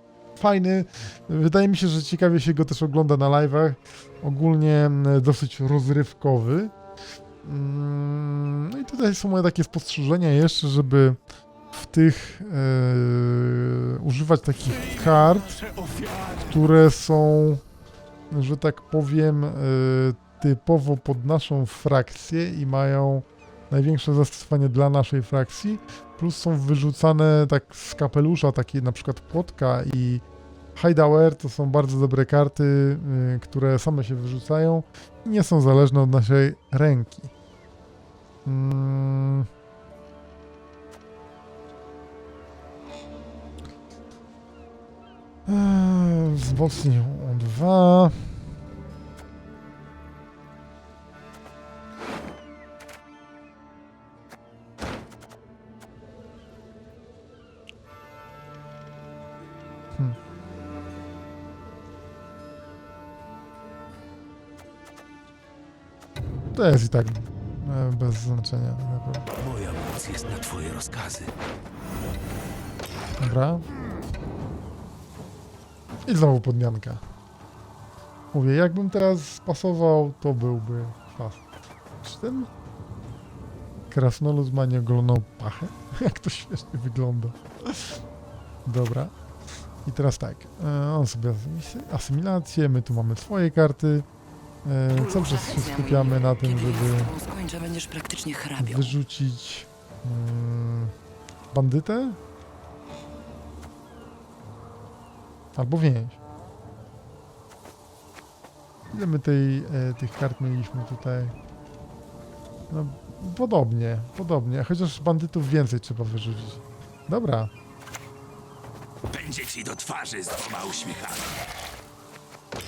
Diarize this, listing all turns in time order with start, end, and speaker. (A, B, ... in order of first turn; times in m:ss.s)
0:00.4-0:06.7 A
0:07.4-0:11.2 A
0:11.7-0:15.6 A
0:16.4-0:17.6 A
0:18.3-0:37.3 A
0:38.4-0:39.5 A
0:45.5-0:48.4 A
1:06.5-1:09.3 A
1:09.4-1:11.3 B
1:13.2-1:13.6 A
1:16.0-1:17.0 A
1:18.3-1:21.4 A
1:22.0-1:22.5 A
1:23.9-1:28.0 A
1:28.6-1:29.1 A
1:29.8-1:34.0 A
1:34.6-1:37.1 A
1:35.0-1:38.9 C
1:38.6-1:40.9 A
1:41.5-1:42.2 A
1:45.5-1:46.2 A
1:48.9-1:51.3 A
1:52.7-1:57.5 A
1:59.1-2:01.2 B